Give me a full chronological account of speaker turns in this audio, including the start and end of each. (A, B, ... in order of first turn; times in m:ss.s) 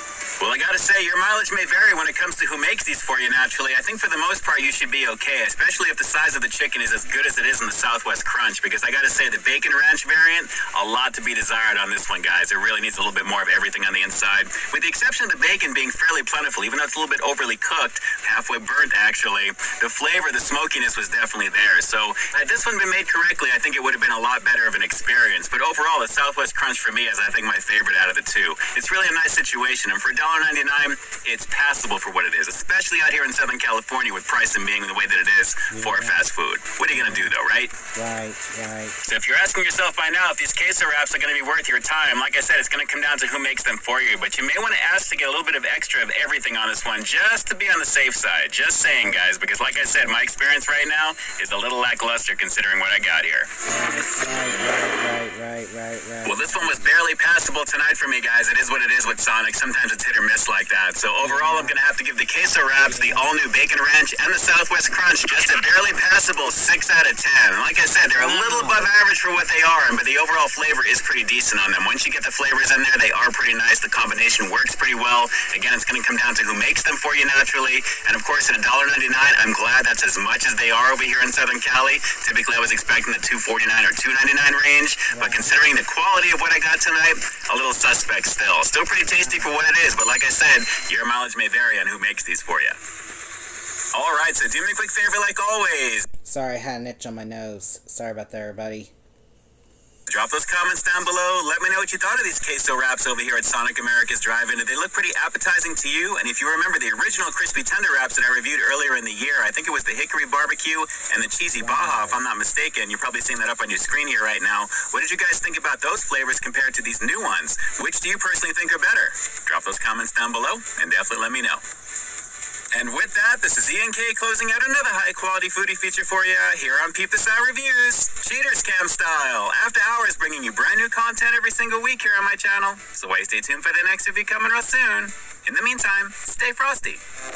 0:00.4-0:37.8 A
0:35.7-0:36.2 B
0:36.9-0:37.3 B
0:37.9-0:39.0 B
0:39.0-0:53.5 A
0:49.0-0:50.2 B
0:53.7-0:57.0 B
0:56.2-1:32.8 A
1:01.2-1:01.8 B
1:02.8-1:03.4 B
1:08.0-1:08.9 B
1:25.1-1:25.5 B
1:29.2-1:29.6 B
1:33.9-1:36.1 A
1:36.2-1:38.9 B
1:40.1-2:01.6 A
1:51.5-1:52.2 B
2:02.7-2:17.0 A